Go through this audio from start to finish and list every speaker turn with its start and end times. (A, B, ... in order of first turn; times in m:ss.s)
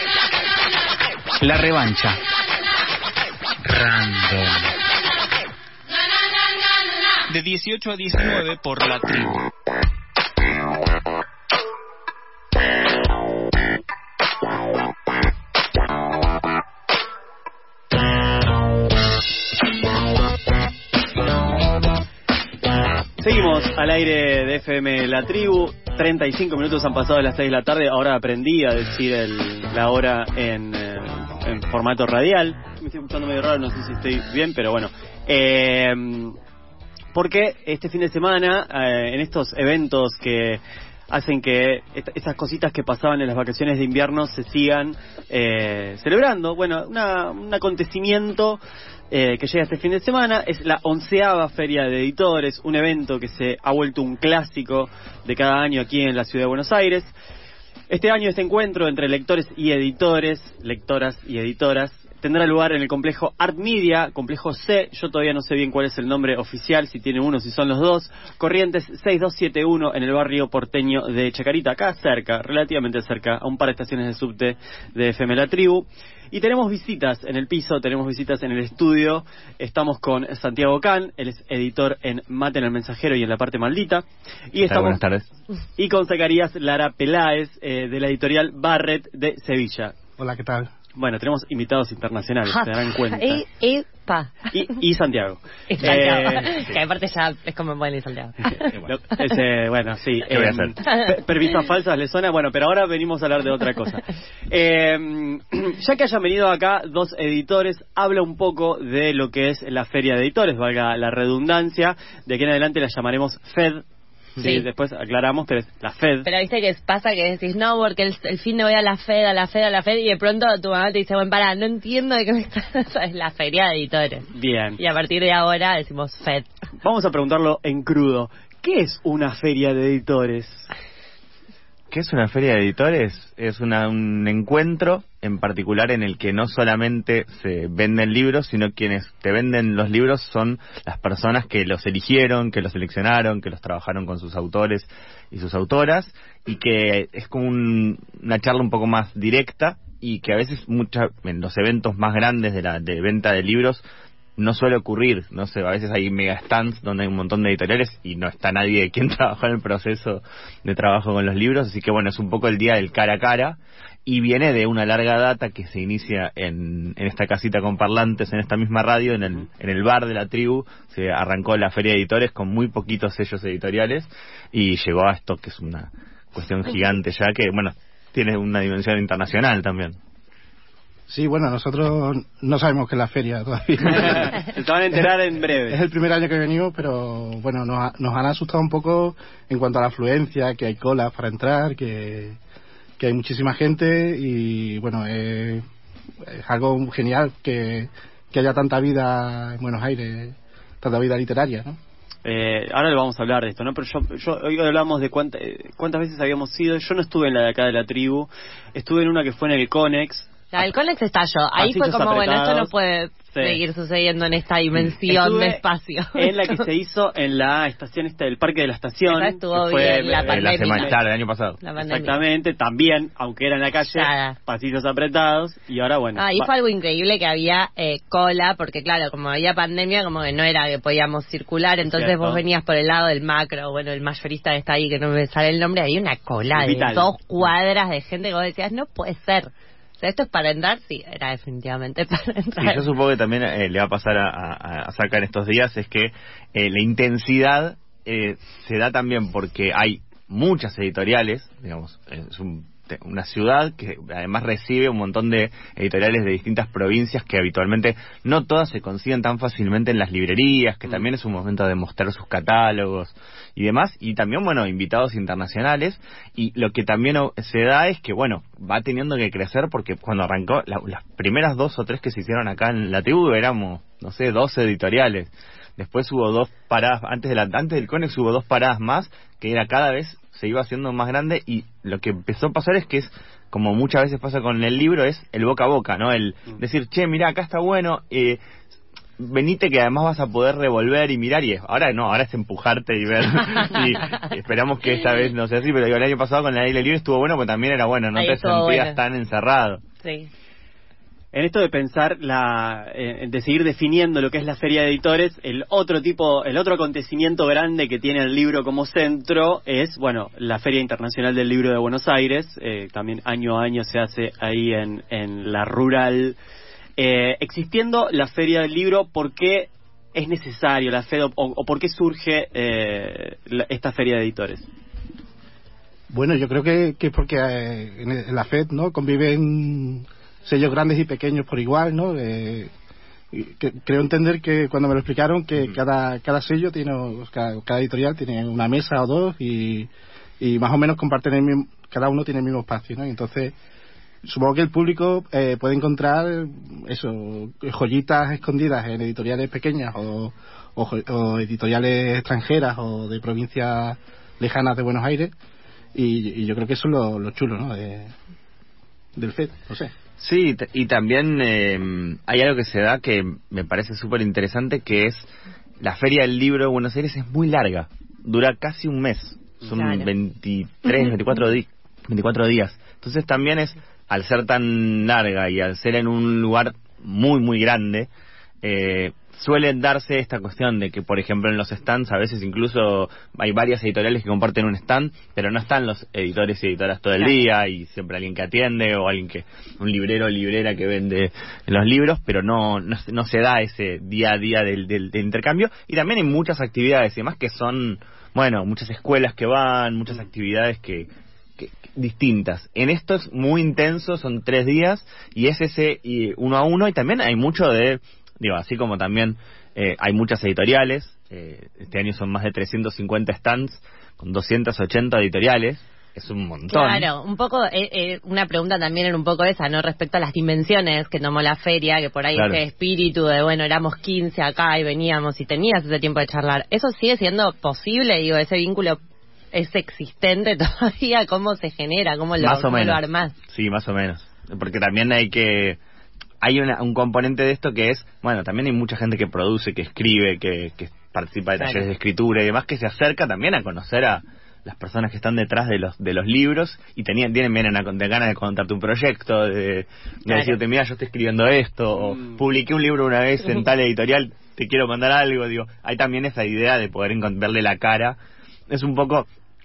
0:01.4-0:02.2 A
0:03.6-0:04.7 A
0:07.3-0:09.4 A
0:23.2-0:36.4 B
0:37.1-0:48.6 B
0:49.1-0:57.1 B
0:57.9-1:25.0 B
1:24.6-1:25.3 C
1:25.8-1:29.9 B
1:30.2-1:30.7 D
1:31.0-1:33.4 B
1:32.5-1:34.5 E
1:34.5-1:36.6 B
1:35.7-1:38.7 E
1:38.8-1:53.8 B
1:40.3-1:40.7 C
1:40.8-1:41.1 E
1:54.4-1:56.3 B
1:54.4-1:54.6 E
1:56.2-2:04.2 E
2:04.3-2:04.8 B
2:04.8-2:06.5 E
2:06.8-2:10.7 B
2:11.9-2:33.8 C
2:34.4-3:00.0 C
3:01.1-3:04.4 D
3:03.9-3:05.8 B
3:05.7-3:12.4 D
3:13.0-3:15.6 D
3:16.2-3:21.8 D
3:22.2-3:30.3 B
3:30.5-3:36.6 E
3:31.6-3:32.7 B
3:33.3-3:33.6 B
3:35.0-3:35.6 B
3:36.1-3:41.0 B
3:39.1-3:41.0 E
3:40.2-3:41.6 C
3:41.6-3:42.2 E
3:41.8-3:46.5 B
3:43.8-3:44.4 E
3:46.2-4:02.8 E
3:51.9-3:52.4 B
3:56.5-3:57.1 B
4:02.6-4:48.4 C
4:49.2-4:59.8 C
4:58.1-4:59.0 E
5:00.0-5:00.3 E
5:01.3-5:16.4 B
5:17.0-5:24.7 B
5:26.1-5:32.7 D
5:33.3-5:43.5 D
5:44.2-5:55.3 D
5:55.9-5:58.1 D
5:59.2-5:59.9 D
6:00.2-6:05.3 C
6:05.8-6:18.1 C
6:09.8-6:10.1 E
6:18.6-6:57.1 C
6:56.7-7:09.0 E
7:02.3-7:02.6 C
7:09.5-7:13.3 E
7:12.4-7:15.8 C
7:16.4-7:38.2 C
7:21.6-7:21.8 E
7:30.3-7:30.5 E
7:32.0-7:32.3 B
7:38.7-7:39.3 C